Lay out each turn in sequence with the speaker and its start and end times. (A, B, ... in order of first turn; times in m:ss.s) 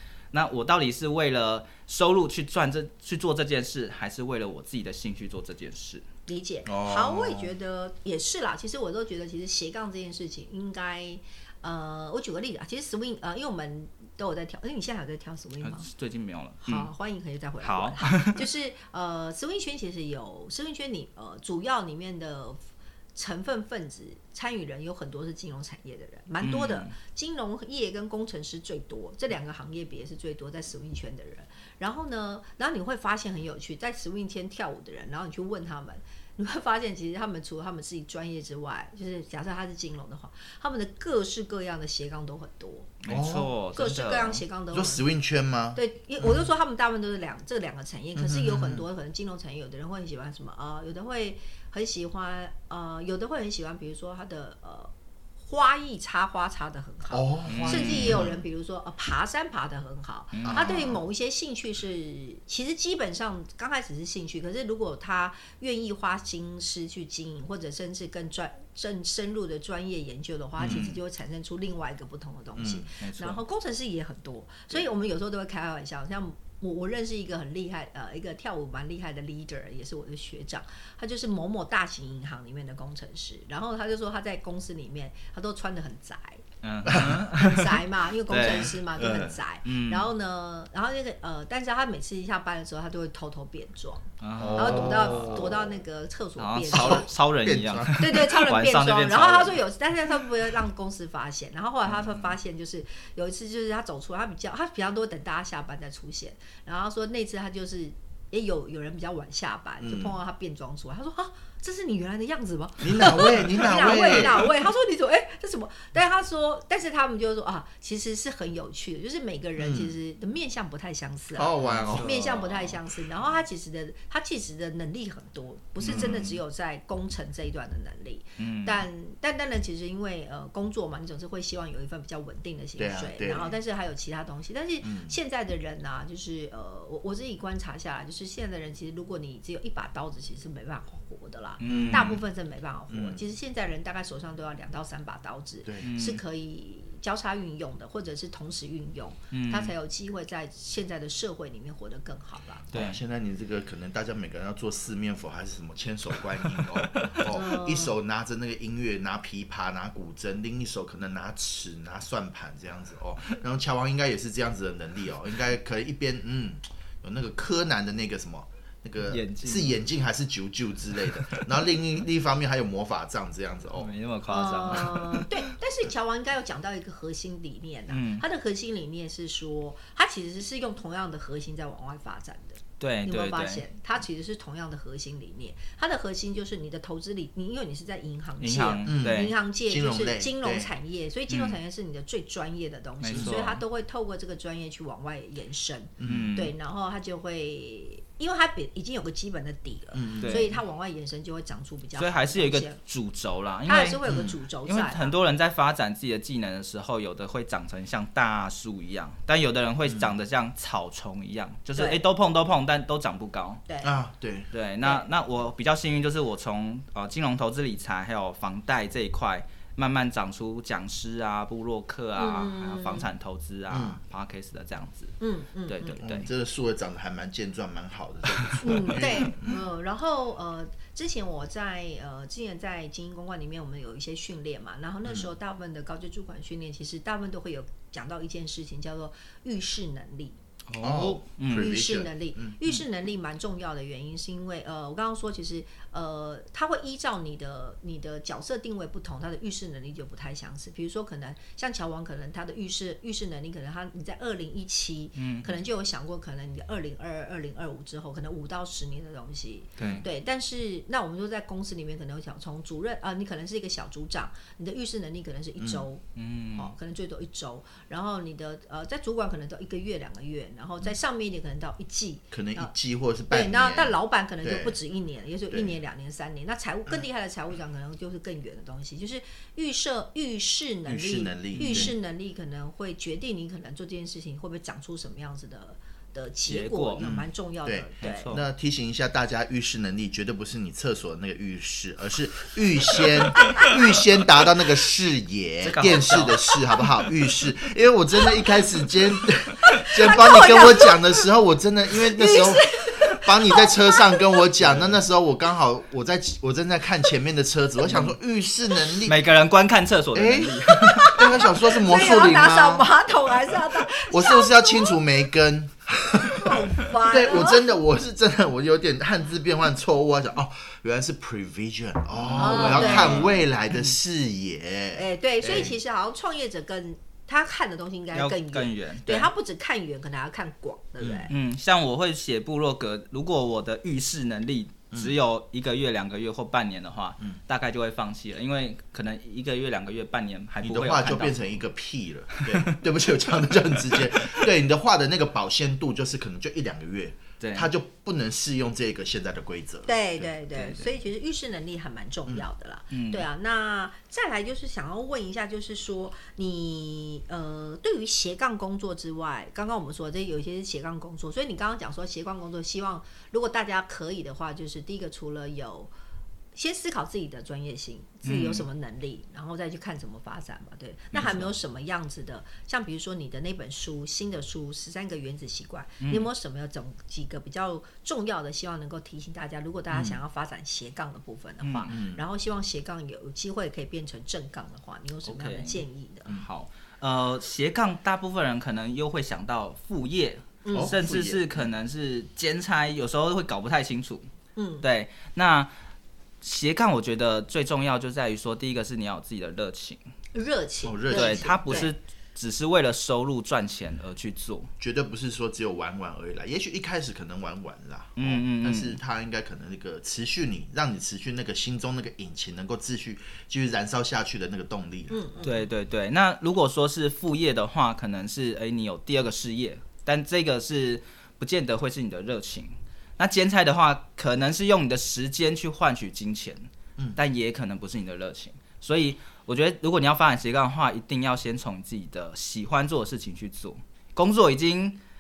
0:00.3-0:06.0 A
0:06.2-0:15.9 B
0:06.6-0:07.5 C
0:15.6-0:16.9 A
0:16.6-0:22.6 B
0:17.6-0:18.4 A
0:23.1-0:42.9 B
0:26.4-0:26.9 A
0:43.0-0:44.4 A
0:43.1-0:43.5 C
0:43.7-0:45.0 B
0:44.7-0:46.5 C
0:45.7-0:54.9 B
0:48.1-0:48.8 C
0:55.4-1:26.4 B
0:57.1-0:58.4 C
0:57.5-0:58.2 A
1:00.3-1:00.8 A
1:00.4-1:01.0 C
1:10.6-1:11.0 A
1:12.6-1:12.9 C
1:12.9-1:13.4 A
1:26.6-1:30.1 A
1:26.8-1:27.3 C
1:27.3-1:37.1 B
1:28.9-1:29.3 C
1:34.2-1:35.5 A
1:34.4-1:35.7 C
1:36.4-1:39.6 A
1:36.7-1:38.0 C
1:38.0-2:32.7 B
1:49.8-1:50.2 C
1:52.8-1:54.5 C
1:59.6-1:59.9 C
2:01.3-2:02.5 C
2:01.6-2:02.7 A
2:05.8-2:06.4 A
2:05.9-2:06.3 C
2:08.4-2:08.8 A
2:12.8-2:13.6 C
2:14.8-2:15.1 C
2:21.6-2:22.2 A
2:21.6-2:22.2 C
2:22.9-2:23.2 C
2:25.8-2:26.2 A
2:29.3-2:29.7 A
2:32.7-2:53.9 C
2:32.7-2:33.0 A
2:36.6-2:37.2 A
2:37.2-2:37.9 B
2:49.0-2:49.8 A
2:53.7-2:55.3 A
2:54.3-3:22.8 B
2:54.7-2:55.0 C
2:57.9-2:58.2 A
3:02.8-3:03.6 A
3:08.4-3:09.4 A
3:08.8-3:10.7 C
3:11.3-3:11.6 A
3:13.0-3:13.6 A
3:16.0-3:16.3 C
3:16.0-3:16.5 A
3:19.9-3:20.5 C
3:20.2-3:20.5 A
3:22.0-3:24.0 A
3:23.6-3:25.1 B
3:24.1-3:24.3 C
3:24.6-3:33.6 A
3:29.9-3:30.1 C
3:31.7-3:32.0 B
3:33.7-3:33.9 B
3:33.8-3:34.5 C
3:34.5-3:45.1 A
3:42.2-3:43.1 B
3:43.7-3:44.0 C
3:45.2-3:46.0 B
3:45.7-3:46.3 A
3:46.0-3:49.6 C
3:48.4-3:49.0 A
3:48.6-4:00.4 B
4:00.7-4:01.7 A
4:00.8-4:02.6 C
4:01.5-4:26.0 B
4:15.2-4:15.5 A
4:19.8-4:20.0 A
4:19.8-4:20.0 C
4:25.6-4:25.8 C
4:26.2-4:26.7 A
4:26.6-4:32.7 B
4:32.3-4:34.8 C
4:33.3-4:48.4 B
4:35.5-4:35.8 C
4:40.8-4:41.9 C
4:41.5-4:41.9 A
4:46.4-4:47.1 A
4:47.0-5:09.2 C
4:48.0-4:48.4 A
4:55.6-4:56.8 A
4:59.7-5:01.2 B
5:02.0-5:04.4 B
5:04.6-5:05.0 A
5:07.8-5:08.2 A
5:09.0-5:11.1 A
5:10.1-5:12.9 C
5:10.8-5:15.0 B
5:13.5-5:25.8 C
5:16.2-5:17.7 B
5:22.1-5:23.9 A
5:22.3-5:23.2 B
5:24.9-5:31.3 B
5:28.1-5:29.3 A
5:31.0-5:31.3 C
5:31.3-5:41.4 A
5:40.6-5:50.3 C
5:42.3-5:42.8 A
5:43.8-5:44.4 A
5:47.4-5:47.7 A
5:49.8-6:05.9 B
5:50.5-5:50.9 A
5:52.9-5:53.3 A
6:06.5-6:26.3 B
6:08.2-6:08.6 A
6:16.0-6:16.3 A
6:19.9-6:20.2 C
6:21.6-6:21.9 A
6:21.9-6:22.2 C
6:25.2-6:34.3 A
6:30.6-6:31.0 B
6:30.7-6:31.6 C
6:34.6-6:34.8 B
6:34.8-6:35.7 A
6:36.4-6:40.0 A
6:40.3-6:41.9 B
6:40.8-6:41.9 C
6:41.1-6:44.7 A
6:44.8-6:55.5 C
6:48.2-6:49.0 A
6:55.1-6:55.7 B
6:55.4-7:15.0 A